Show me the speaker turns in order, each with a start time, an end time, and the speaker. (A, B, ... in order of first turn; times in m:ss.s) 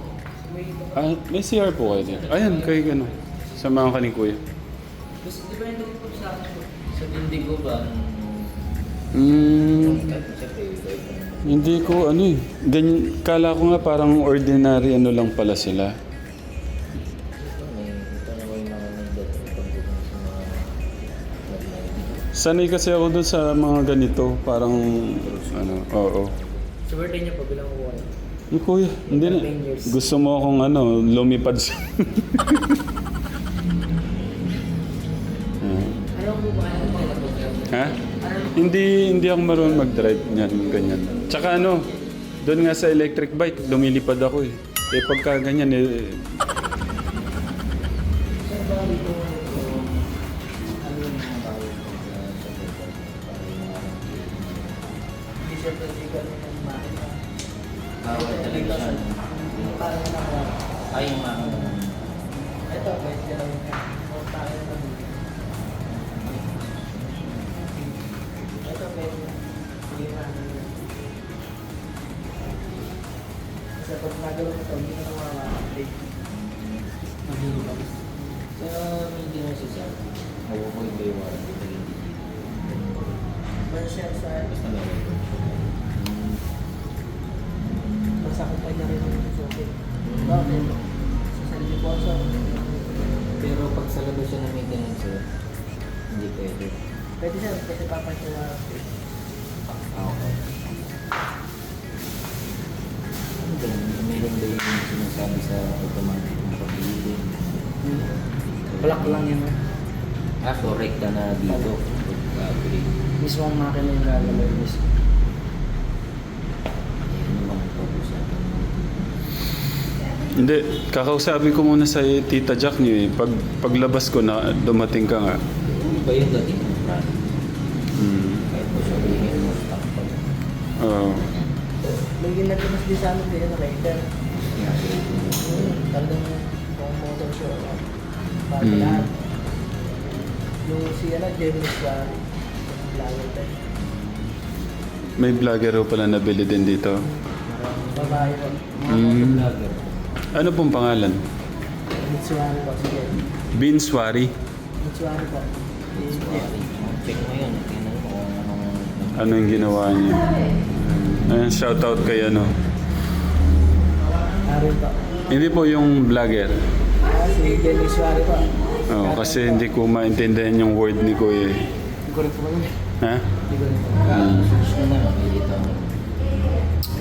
0:00.4-0:01.1 A
0:01.0-0:04.4 B
0:02.1-0:03.9 C
0:05.2-0:06.7 A
0:06.9-0:08.7 C
0:09.1-0:10.2 B
0:09.5-0:12.1 C
0:11.4-0:15.9 B
0:17.4-0:20.8 C
0:21.4-0:22.3 C
0:22.4-0:26.3 B
0:25.1-0:26.7 C
0:26.9-0:28.1 A
0:28.5-0:32.8 B
0:29.1-0:30.0 A
0:35.6-0:36.0 B
0:36.2-0:37.3 A
0:36.5-0:38.1 C
0:37.7-0:38.0 B
0:38.2-0:38.6 A
0:38.5-0:41.9 B
0:40.4-0:41.8 C
0:42.4-0:46.4 B
0:48.5-0:49.8 A
0:50.8-0:55.0 C
0:55.4-0:57.2 A
0:58.0-0:59.9 C
0:58.1-1:00.6 A
1:00.9-1:02.2 C
1:02.7-1:05.2 A
1:05.9-1:08.8 C
1:08.6-1:10.8 A
1:13.8-1:16.0 A
1:17.3-1:18.0 A
1:18.5-1:22.4 C
1:22.7-1:23.1 A
1:23.7-1:24.5 A
1:24.5-1:26.4 C
1:28.2-1:29.7 A
1:30.0-1:30.8 C
1:30.2-1:30.8 A
1:31.3-1:32.3 A
1:33.4-1:35.2 C
1:36.1-1:36.8 C
1:37.2-1:38.9 A
1:39.7-1:40.8 C
1:43.4-1:49.3 C
1:47.8-1:48.1 A
1:48.8-1:49.6 A
1:50.4-1:52.9 C
1:53.2-1:54.8 A
1:57.1-1:58.9 C
2:00.4-2:05.4 B
2:05.7-2:07.3 C
2:08.0-2:08.5 B
2:08.5-2:10.2 C
2:10.8-2:11.3 B
2:12.2-2:14.0 A
2:14.5-2:15.8 C
2:15.4-2:17.9 A
2:18.5-2:19.2 A
2:18.6-2:19.1 B
2:20.6-2:23.6 A
2:25.2-2:27.0 B
2:27.5-2:30.0 C
2:27.9-2:28.6 A
2:28.9-2:29.5 B
2:30.3-2:31.2 B
2:32.0-2:33.2 A
2:33.4-2:34.3 B
2:34.8-2:36.5 A
2:35.9-2:39.7 C
2:39.2-2:42.5 B
2:44.4-2:45.0 A
2:45.3-2:46.6 B
2:47.0-2:49.7 A
2:48.9-2:51.7 B
2:52.1-2:52.7 A
2:53.0-2:53.3 B
2:53.5-2:54.2 A
2:54.0-2:56.0 C
2:54.1-2:54.6 B